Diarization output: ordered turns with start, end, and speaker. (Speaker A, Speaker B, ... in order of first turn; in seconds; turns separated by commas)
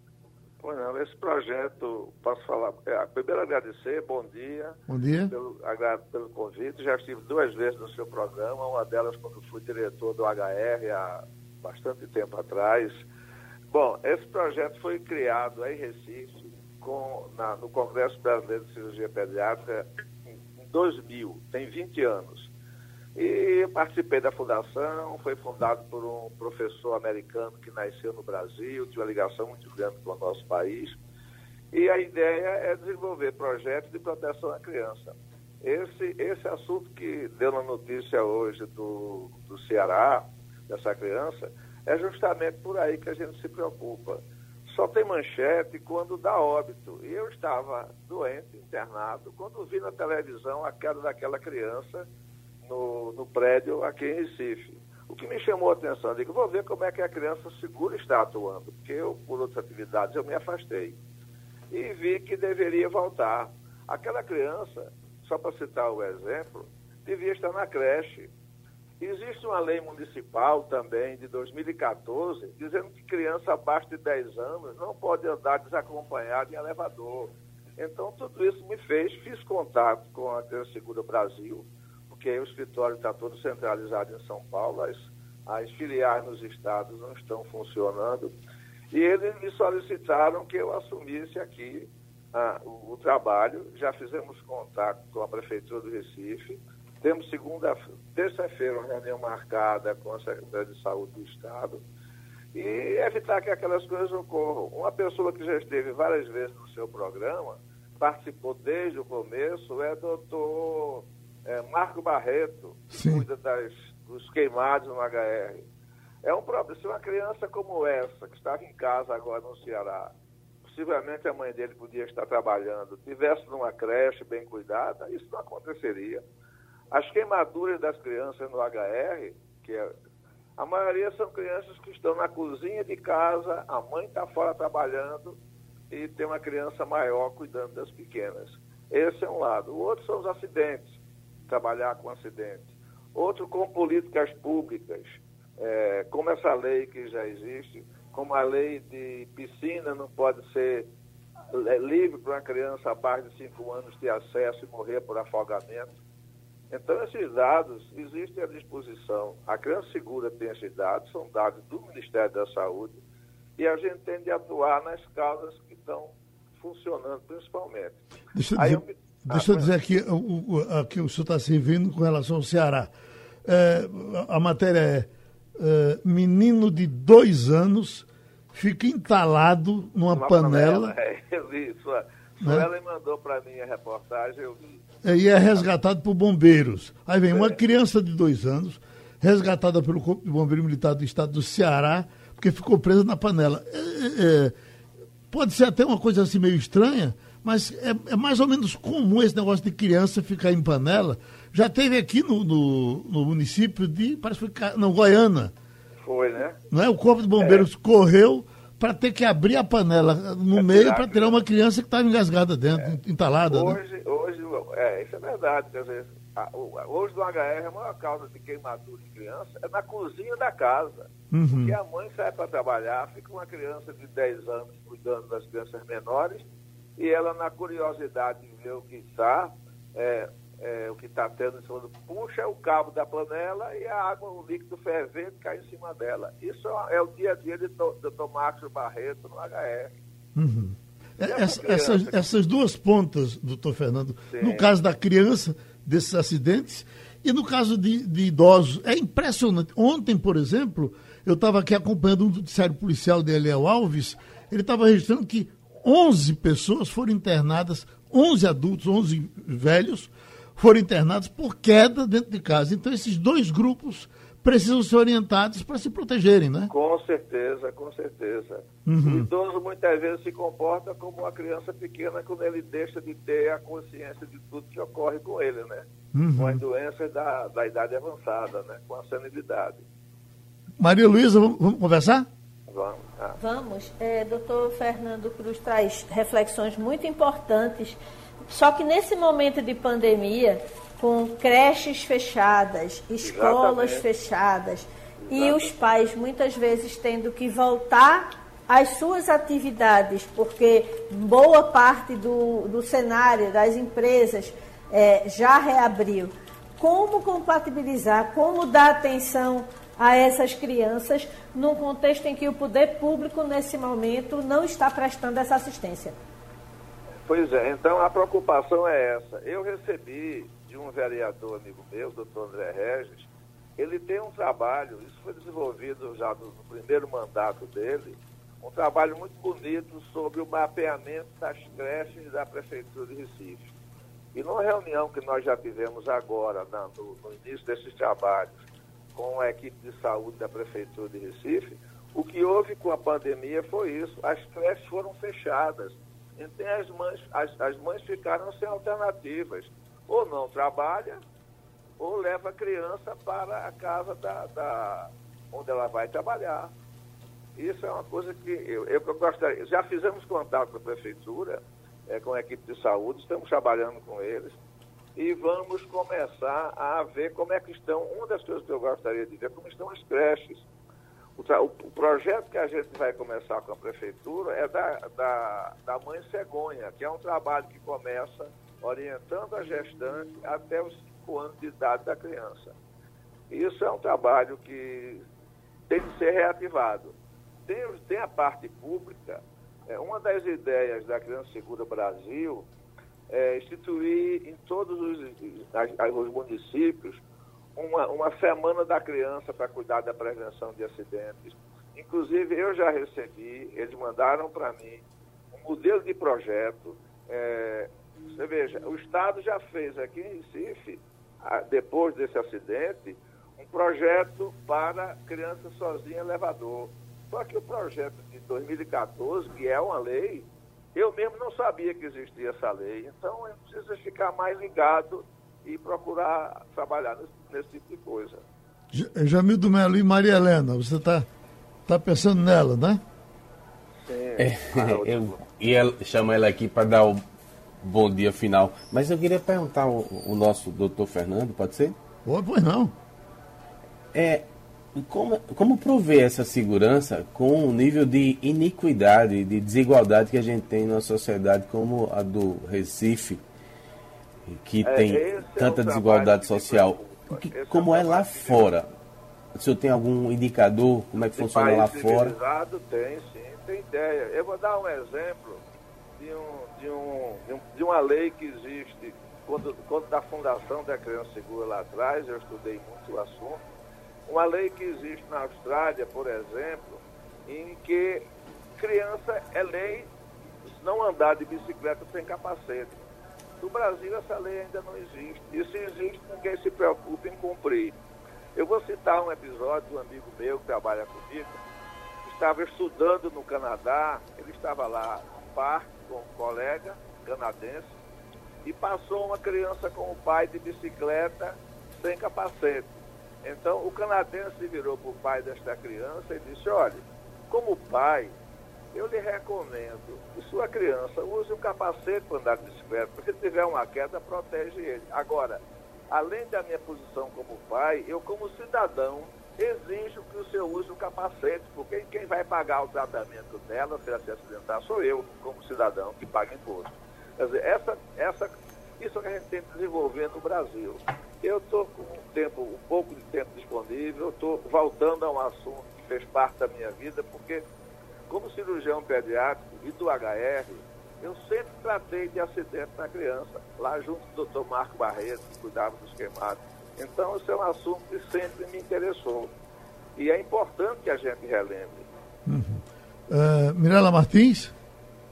Speaker A: 0.6-4.8, Speaker B: 4.9-5.3, Speaker A: 5.3-13.0, Speaker A: 13.7-19.9, Speaker A: 20.6-22.5, Speaker A: 23.2-31.0, Speaker A: 31.7-52.1, Speaker A: 52.6-61.0, Speaker A: 61.7-68.3, Speaker A: 69.0-88.3, Speaker A: 88.9-101.8, Speaker A: 102.5-115.6, Speaker B: 112.9-113.2, Speaker A: 116.2-120.1, Speaker A: 120.7-126.2, Speaker A: 126.9-129.9, Speaker A: 130.6-135.4, Speaker A: 135.9-150.9, Speaker A: 151.5-155.9, Speaker A: 156.7-163.0, Speaker A: 163.6-168.0, Speaker B: 168.3-172.9, Speaker A: 168.6-169.7, Speaker B: 173.4-180.9, Speaker A: 180.1-185.7, Speaker B: 185.0-194.5, Speaker A: 187.3-187.6, Speaker B: 195.3-205.5, Speaker A: 206.0-206.6, Speaker B: 206.7-213.8, Speaker A: 207.4-207.7, Speaker A: 210.5-211.4, Speaker A: 213.5-226.4, Speaker B: 221.3-221.8, Speaker A: 227.0-239.9, Speaker B: 240.4-266.7, Speaker A: 241.3-242.2, Speaker A: 244.3-244.7, Speaker A: 266.7-279.8, Speaker B: 268.9-269.3, Speaker B: 276.1-276.6, Speaker B: 280.8-282.3, Speaker A: 282.7-283.4, Speaker C: 283.4-316.2, Speaker A: 293.2-294.1, Speaker A: 295.2-295.7, Speaker A: 317.2-333.7, Speaker A: 334.3-338.6, Speaker A: 339.1-351.2, Speaker A: 352.0-356.7, Speaker A: 357.6-364.6, Speaker A: 365.2-370.7, Speaker A: 371.4-382.8, Speaker A: 383.5-385.2, Speaker A: 385.9-387.1, Speaker A: 387.7-392.7, Speaker A: 393.3-397.2, Speaker A: 397.8-428.4, Speaker B: 428.9-431.3, Speaker B: 431.9-433.0, Speaker A: 434.0-435.4, Speaker D: 434.4-437.2, Speaker D: 437.8-441.9, Speaker B: 442.2-442.9, Speaker D: 444.1-453.4, Speaker D: 454.5-458.9, Speaker A: 454.8-458.7, Speaker D: 459.6-462.4, Speaker A: 461.2-465.6, Speaker A: 466.2-473.6, Speaker A: 474.3-478.2, Speaker A: 478.8-480.1, Speaker A: 480.7-483.0, Speaker A: 483.6-488.0, Speaker A: 488.6-491.6, Speaker A: 492.2-497.9, Speaker A: 498.6-508.4, Speaker A: 508.9-537.6, Speaker A: 538.3-549.5, Speaker A: 550.2-552.1, Speaker B: 552.5-554.7